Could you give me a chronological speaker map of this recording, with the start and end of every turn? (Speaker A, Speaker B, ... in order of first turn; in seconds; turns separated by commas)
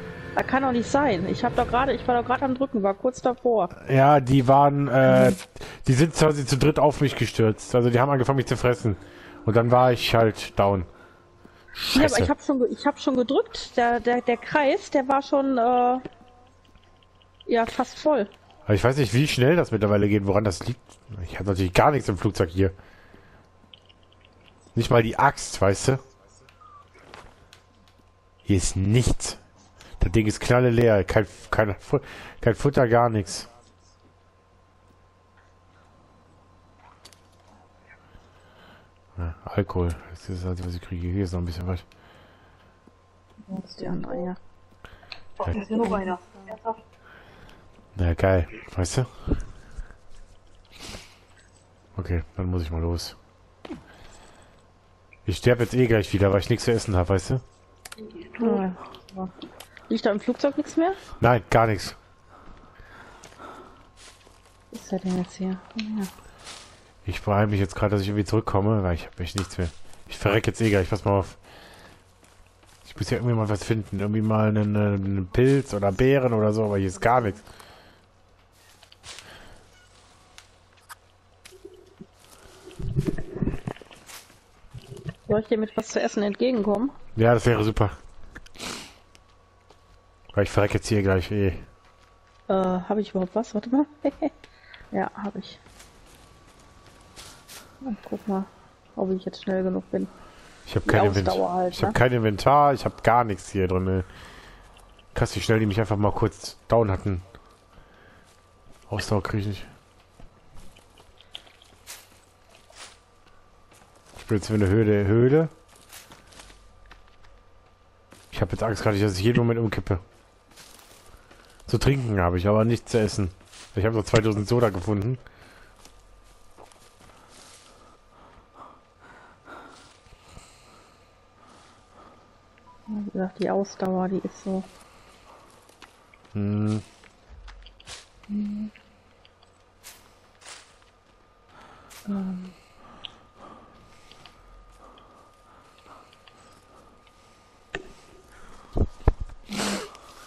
Speaker A: 0.3-3.7, Speaker B: 3.8-10.9, Speaker A: 5.0-5.4, Speaker B: 11.7-12.3, Speaker A: 11.9-16.0, Speaker A: 17.4-18.3, Speaker B: 18.6-22.7, Speaker B: 24.7-26.0, Speaker B: 28.4-29.4, Speaker B: 30.0-33.5, Speaker B: 39.2-41.8, Speaker C: 43.5-44.3, Speaker A: 43.5-44.4, Speaker C: 45.4-46.8, Speaker A: 45.5-46.1, Speaker B: 48.0-49.1, Speaker B: 52.0-53.1, Speaker B: 55.2-57.4, Speaker C: 58.0-58.6, Speaker A: 58.4-59.3, Speaker A: 59.9-61.0, Speaker B: 61.2-62.0, Speaker A: 64.7-66.1, Speaker B: 67.0-71.4, Speaker B: 72.8-77.4, Speaker A: 85.3-87.0, Speaker B: 87.2-87.9, Speaker B: 90.3-91.6, Speaker A: 92.5-94.3, Speaker A: 94.9-95.6, Speaker A: 97.8-100.1, Speaker B: 100.7-104.0, Speaker A: 100.8-102.0, Speaker B: 105.1-107.2, Speaker B: 108.9-109.7, Speaker B: 114.2-115.5, Speaker B: 118.3-120.0, Speaker B: 121.7-125.2, Speaker A: 132.9-134.7, Speaker B: 136.3-136.8, Speaker A: 138.3-138.7, Speaker A: 142.1-142.5, Speaker A: 149.5-149.8